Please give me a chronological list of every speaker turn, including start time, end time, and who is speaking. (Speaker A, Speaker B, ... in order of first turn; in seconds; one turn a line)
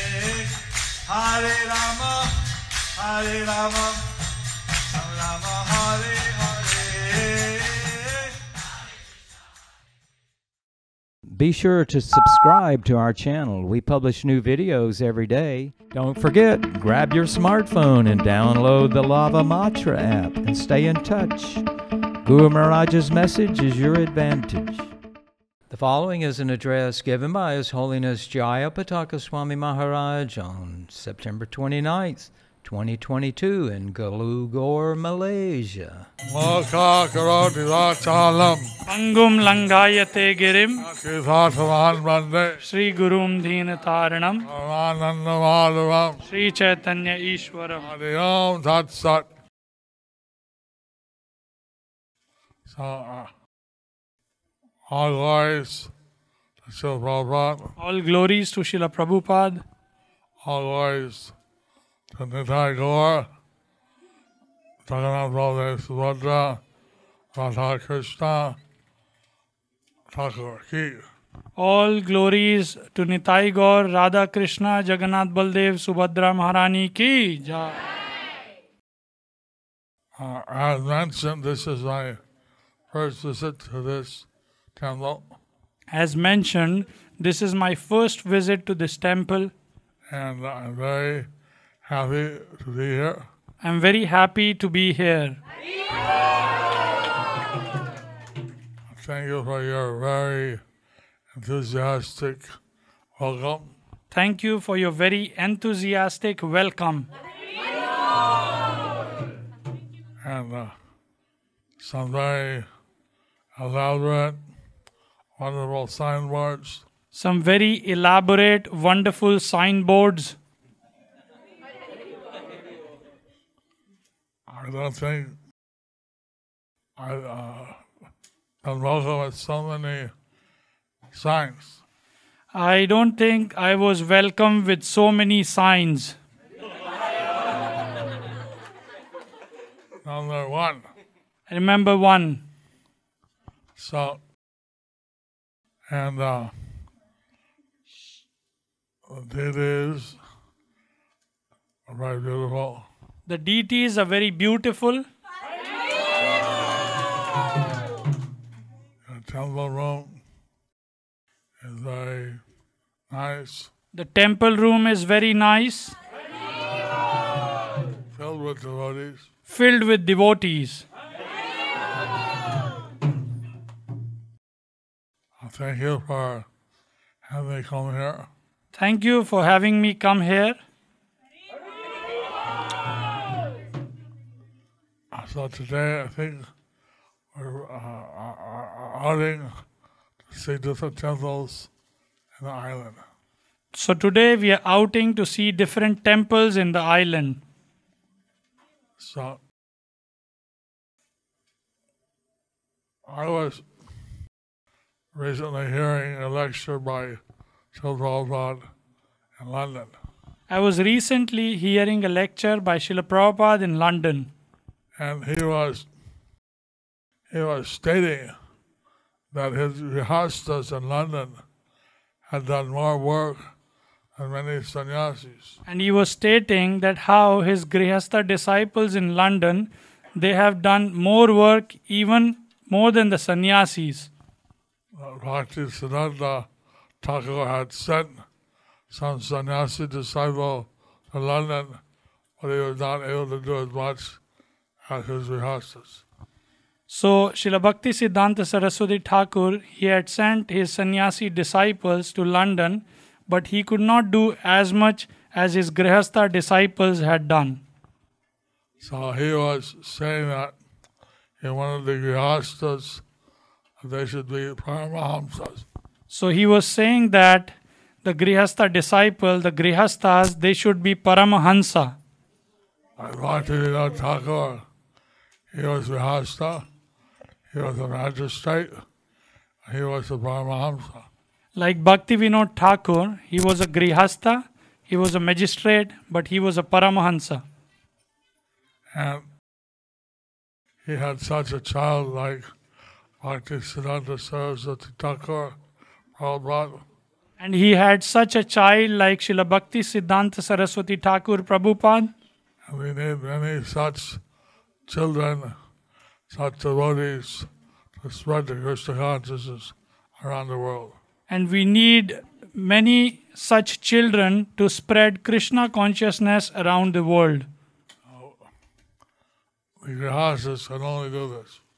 Speaker A: 1.2-2.2
Speaker B: 1.3-1.6
Speaker A: 3.0-4.0
Speaker A: 5.0-8.0
Speaker B: 11.3-21.7
Speaker B: 22.2-24.9
Speaker B: 25.7-36.1
Speaker C: 36.3-38.7
Speaker D: 38.9-40.9
Speaker C: 40.8-42.6
Speaker D: 42.6-44.5
Speaker C: 44.4-46.2
Speaker D: 46.2-47.9
Speaker C: 47.8-49.3
Speaker C: 52.7-53.3
Speaker C: 54.9-55.9
Speaker C: 56.6-57.8
Speaker D: 57.8-59.6
Speaker C: 60.4-61.4
Speaker C: 62.1-63.3
Speaker C: 64.8-66.6
Speaker C: 67.3-68.6
Speaker C: 70.1-71.0
Speaker D: 71.6-77.8
Speaker C: 80.2-82.2
Speaker C: 82.9-85.3
Speaker D: 85.9-89.5
Speaker C: 90.1-91.3
Speaker C: 91.8-93.3
Speaker D: 93.6-95.4
Speaker C: 98.9-100.6
Speaker C: 101.3-102.5
Speaker C: 103.2-103.8
Speaker D: 104.1-107.1
Speaker C: 110.2-110.8
Speaker C: 111.8-112.7
Speaker C: 113.6-114.4
Speaker C: 115.4-116.9
Speaker D: 117.1-120.4
Speaker C: 124.5-125.4
Speaker C: 127.0-127.8
Speaker C: 128.6-130.1
Speaker C: 131.1-131.8
Speaker D: 132.5-136.2
Speaker C: 140.0-140.9
Speaker D: 141.5-142.4
Speaker C: 143.8-144.2
Speaker C: 145.9-146.5
Speaker C: 149.1-150.2
Speaker C: 151.9-152.9
Speaker D: 153.3-155.1
Speaker C: 159.1-160.2
Speaker C: 161.6-162.4
Speaker C: 163.1-163.7
Speaker D: 163.9-166.0
Speaker C: 168.1-169.3
Speaker D: 169.5-170.9
Speaker C: 175.4-176.5
Speaker C: 177.2-178.3
Speaker D: 178.7-180.6
Speaker C: 185.1-186.5
Speaker C: 187.3-189.5
Speaker C: 190.3-191.7
Speaker C: 192.4-193.0
Speaker D: 193.7-197.4
Speaker C: 199.0-199.4
Speaker C: 203.1-203.7
Speaker C: 205.1-207.2
Speaker C: 207.7-208.7
Speaker C: 209.4-210.0
Speaker D: 210.5-214.3
Speaker C: 215.0-215.9
Speaker C: 217.3-218.3
Speaker C: 219.3-221.4
Speaker C: 222.3-223.5
Speaker C: 224.2-225.6
Speaker D: 225.7-234.1
Speaker C: 234.9-236.5
Speaker C: 237.0-238.2
Speaker C: 238.9-241.8
Speaker C: 242.4-244.2
Speaker C: 244.8-246.1
Speaker D: 246.9-257.6
Speaker C: 258.8-260.6
Speaker C: 261.4-263.0
Speaker C: 263.8-265.7
Speaker D: 266.1-272.0
Speaker C: 273.0-274.6
Speaker C: 275.5-276.6
Speaker C: 277.5-278.8
Speaker C: 279.7-281.1
Speaker D: 281.6-287.4
Speaker C: 288.9-289.3
Speaker C: 290.8-292.5
Speaker C: 293.2-295.6
Speaker C: 296.2-296.8
Speaker D: 297.4-302.1
Speaker C: 302.7-304.2
Speaker C: 304.9-305.6
Speaker C: 306.3-307.5
Speaker C: 308.0-311.0
Speaker D: 311.3-317.5
Speaker C: 318.1-318.4
Speaker C: 319.8-321.6